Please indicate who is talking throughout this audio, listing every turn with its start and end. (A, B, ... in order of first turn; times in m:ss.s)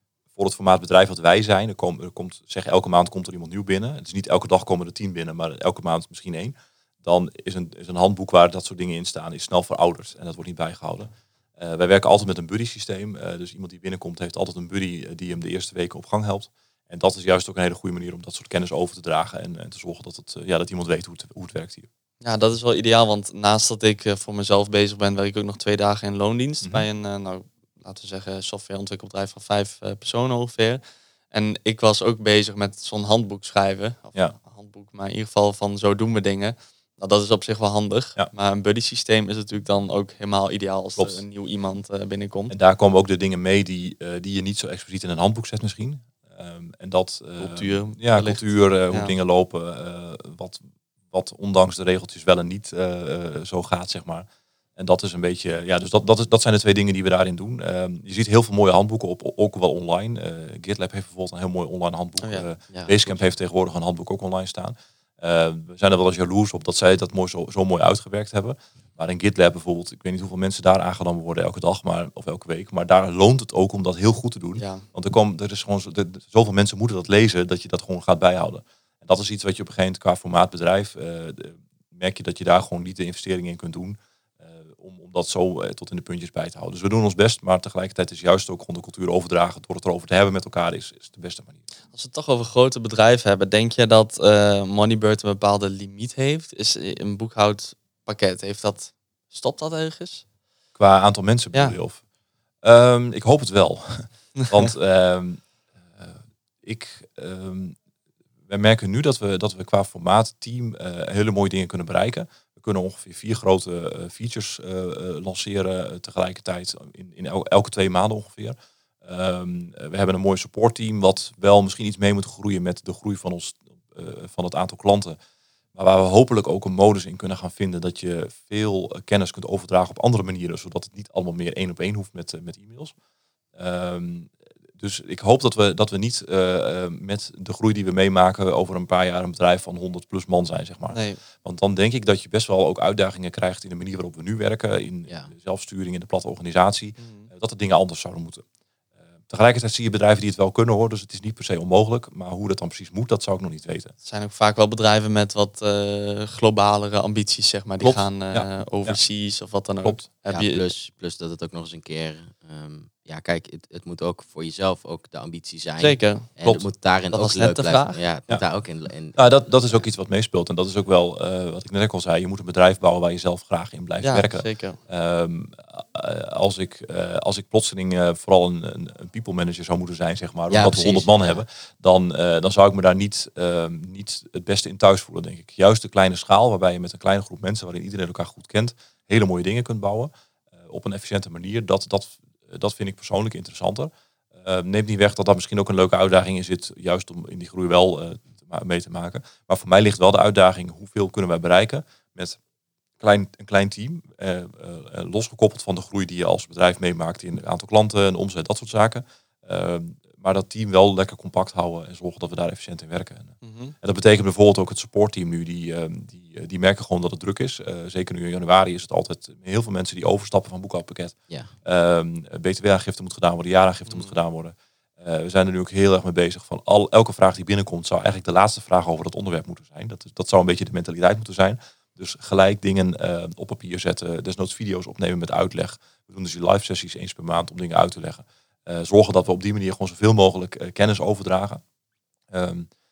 0:00.4-0:21.9 A
0:22.2-0:42.5 B
0:41.0-0:41.2 A
0:42.5-1:31.6 A
0:47.4-0:49.1 B
1:14.6-1:14.9 B
1:31.9-1:40.2 B
1:40.8-1:42.0 A
1:42.6-1:45.4 A
1:44.4-1:44.7 B
1:46.0-1:47.8 A
1:48.5-2:05.2 A
2:05.8-2:12.9 A
2:13.6-2:28.4 A
2:20.9-2:21.2 B
2:27.0-2:27.3 B
2:29.3-2:33.9 A
2:34.0-2:40.7 B
2:37.8-2:39.0 A
2:39.8-2:40.1 A
2:40.3-2:49.4 C
2:45.8-2:46.3 B
2:47.1-2:48.0 B
2:49.2-3:10.1 A
2:54.0-2:54.8 B
3:00.5-3:01.4 C
3:10.6-3:22.4 A
3:23.0-4:01.6 A
3:33.4-3:33.8 B
4:02.3-4:02.7 A